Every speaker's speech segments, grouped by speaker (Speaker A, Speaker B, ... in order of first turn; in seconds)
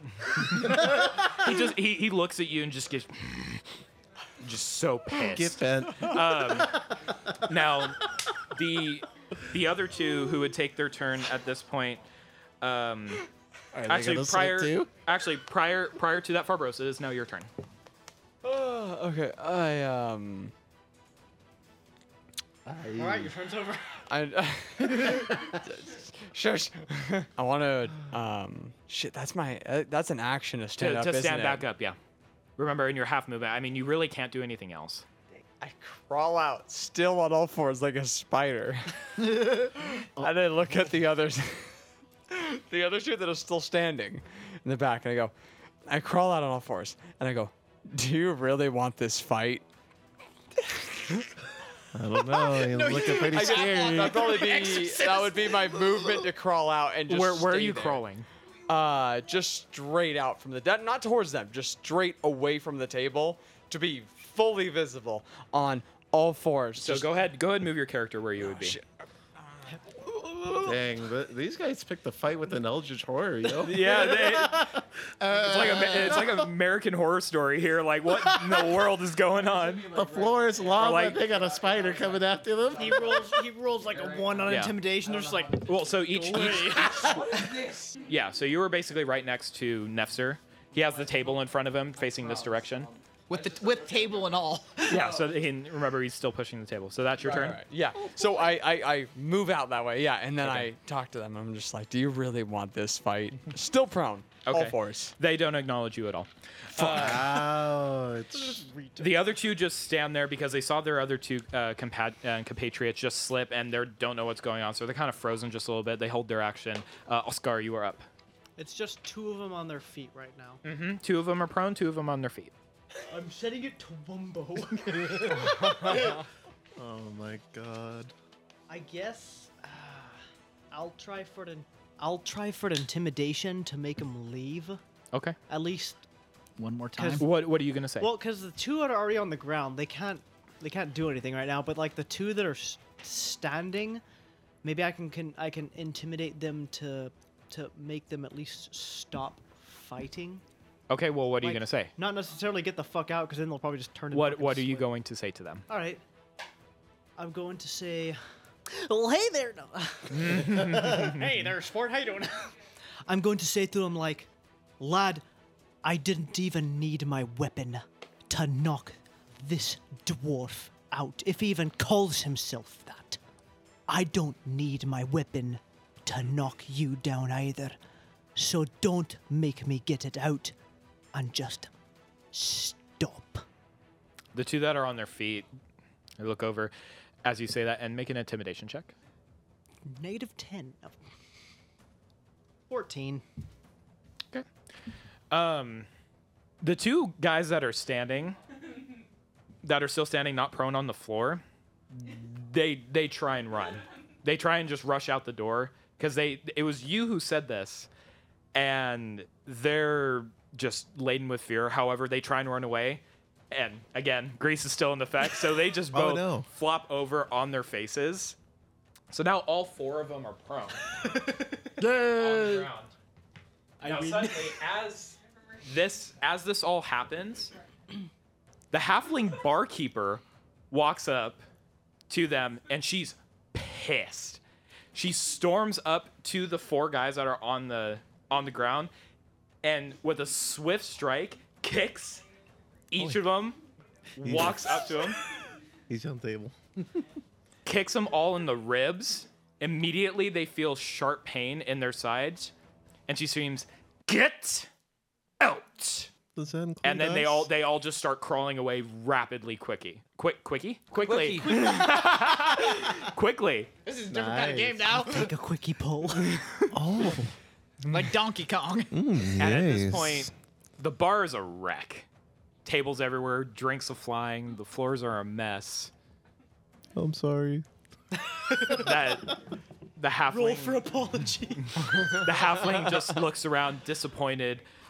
Speaker A: 0.2-3.6, 4.4-12.0, 12.6-13.2, 13.9-17.5, 30.8-32.0, 32.6-35.0, 57.1-58.3, 66.8-68.8, 73.6-74.7, 75.3-79.9, 80.7-81.2, 84.5-84.8, 85.6-87.4, 88.0-92.9, 94.8-97.6, 100.4-100.7, 104.5-107.6, 109.0-118.0, 120.6-122.5, 137.2-138.1, 150.9-151.9, 154.1-155.7, 160.1-161.3, 184.3-185.5, 186.2-186.7, 187.2-188.9, 195.3-195.9, 196.6-198.4, 199.6-207.9, 208.5-218.3, 219.1-221.0, 222.0-222.9, 223.8-227.5, 228.7-231.4, 232.1-234.4, 234.9-238.9, 239.6-242.2, 242.9-243.6, 244.2-245.2, 247.6-252.5, 253.1-254.7, 255.4-256.1, 256.8-263.7, 269.4-272.1, 272.6-275.9, 278.7-279.4, 280.0-280.9, 281.8-284.6
Speaker B: 5.2-7.1, 13.7-14.9, 22.6-23.3, 51.9-54.3, 70.6-76.5, 78.3-78.7, 79.9-83.3, 106.8-108.6, 124.7-126.2, 126.8-128.1, 215.9-216.5, 244.2-244.9, 245.9-247.0, 256.3-257.5, 264.1-265.1, 266.7-267.3, 268.9-270.3, 276.9-277.6
Speaker C: 18.4-20.5, 24.1-31.6, 35.6-41.8, 42.3-45.3, 45.9-49.6, 50.6-51.3, 53.0-58.0, 58.7-67.1, 68.5-68.8, 70.2-70.5, 79.6-80.7, 81.3-82.2, 83.9-85.6, 87.1-87.9, 92.2-92.9, 97.2-105.1
Speaker D: 22.9-23.9, 82.8-87.5, 108.3-109.4, 118.6-120.6, 123.1-126.1, 128.7-130.2, 130.7-134.8, 135.5-136.0, 136.9-137.3, 138.0-144.0, 144.6-150.4, 151.4-154.9, 155.7-156.0, 157.2-164.3, 164.8-165.2, 165.8-173.2, 173.9-177.8, 178.3-180.5, 181.1-181.7, 182.3-183.4, 189.8-191.0, 192.7-193.2, 223.8-224.6, 265.1-266.6, 278.2-279.1, 280.3-282.4
Speaker E: 52.6-55.8, 93.3-95.1, 136.6-137.2, 261.2-261.6, 263.9-265.3, 267.9-269.0